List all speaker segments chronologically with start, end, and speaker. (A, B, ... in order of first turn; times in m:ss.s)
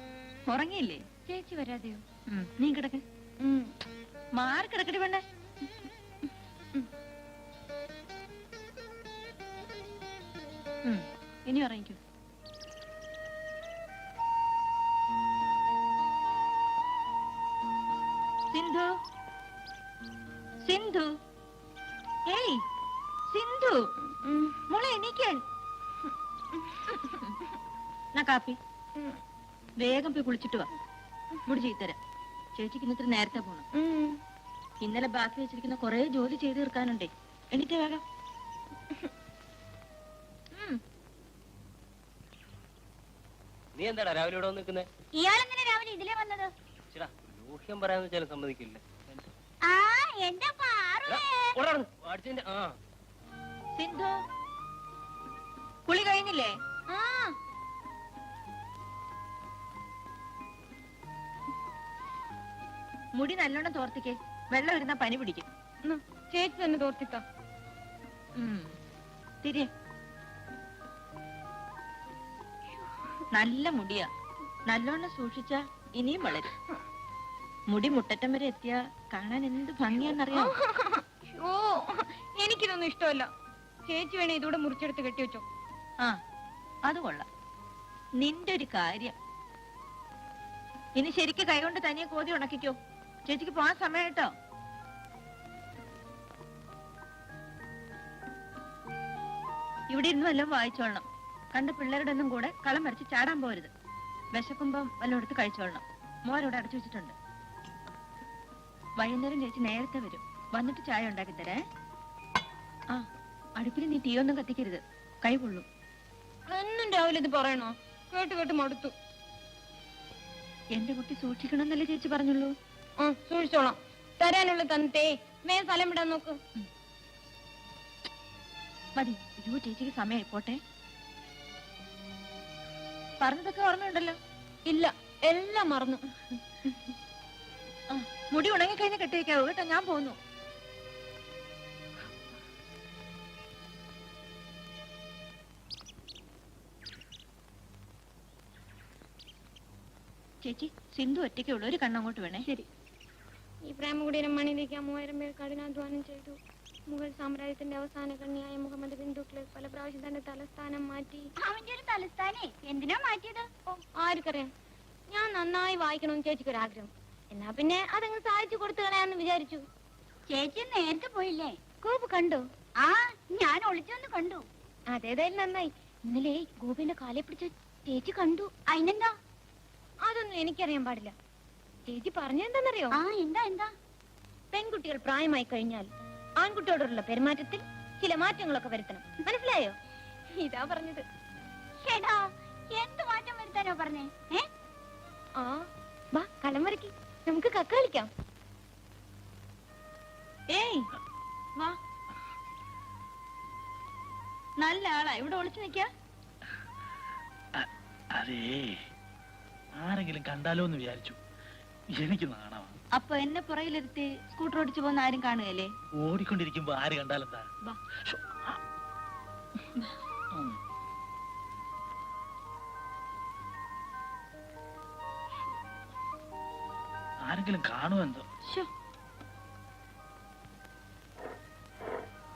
0:00.5-0:01.0 A
0:01.3-0:02.0 B
0:02.3-0:03.0 A
0:03.4-0:03.7 B
0:04.4-0:05.2 A
0:10.8-0:12.0 A
0:18.5-0:18.9 A
0:20.6-0:21.1 A
0:22.3-0:22.6 A
0:23.3-0:23.8 A
0:24.2-0:24.6 B
0:24.7-0:25.4 A
0:26.6-0:27.0 B
0:28.2-0:28.6 A
0:29.8-0:30.7 A
0:31.5-0:32.0 A
0:32.6-0:33.7 A
0:33.8-0:34.2 B
0:34.8-0:38.0 A
0:43.8-0:44.9 C
0:45.2-0:46.5 D
0:46.9-0:48.8 C
0:49.6-0:51.6 D
0:51.1-0:52.8 C
0:53.8-0:54.2 A
0:55.9-0:56.5 A
0:56.9-0:57.3 B
1:03.2-1:05.5 A
1:05.8-1:07.2 B
1:08.4-1:08.7 A
1:09.4-1:09.7 A
1:13.3-1:14.1 A
1:14.7-1:16.5 A
1:17.7-1:20.6 A
1:20.3-1:23.3 B
1:23.9-1:25.4 B
1:26.8-1:27.2 A
1:28.2-1:29.1 A
1:31.0-1:34.3 A
1:39.9-1:43.7 A
1:44.3-1:47.1 A
1:49.0-1:51.6 A
1:53.6-1:55.7 A
1:56.5-1:58.9 B
2:00.8-2:02.5 A
2:03.0-2:06.4 B
2:09.0-2:10.6 A
2:13.2-2:14.2 A
2:14.7-2:16.0 B
2:17.9-2:20.2 A
2:30.4-2:32.5 A
2:33.6-2:41.3 B
2:41.4-2:43.5 D
2:43.7-2:44.5 B
2:45.1-2:49.6 B
2:50.3-2:51.6 D
2:51.8-2:52.4 B
2:52.8-2:54.4 D
2:54.9-2:58.5 B
2:58.7-2:59.1 D
3:00.0-3:01.1 B
3:01.9-3:03.0 B
3:02.9-3:03.7 D
3:04.5-3:05.9 B
3:06.4-3:09.8 B
3:10.4-3:11.0 B
3:11.8-3:14.4 D
3:16.1-3:18.1 B
3:20.5-3:20.9 A
3:24.6-3:25.9 A
3:27.6-3:28.8 E
3:29.8-3:31.2 E
3:31.9-3:32.8 E
3:33.0-3:35.7 A
3:36.0-3:37.5 E
3:38.0-3:38.6 E
3:47.2-3:48.2 E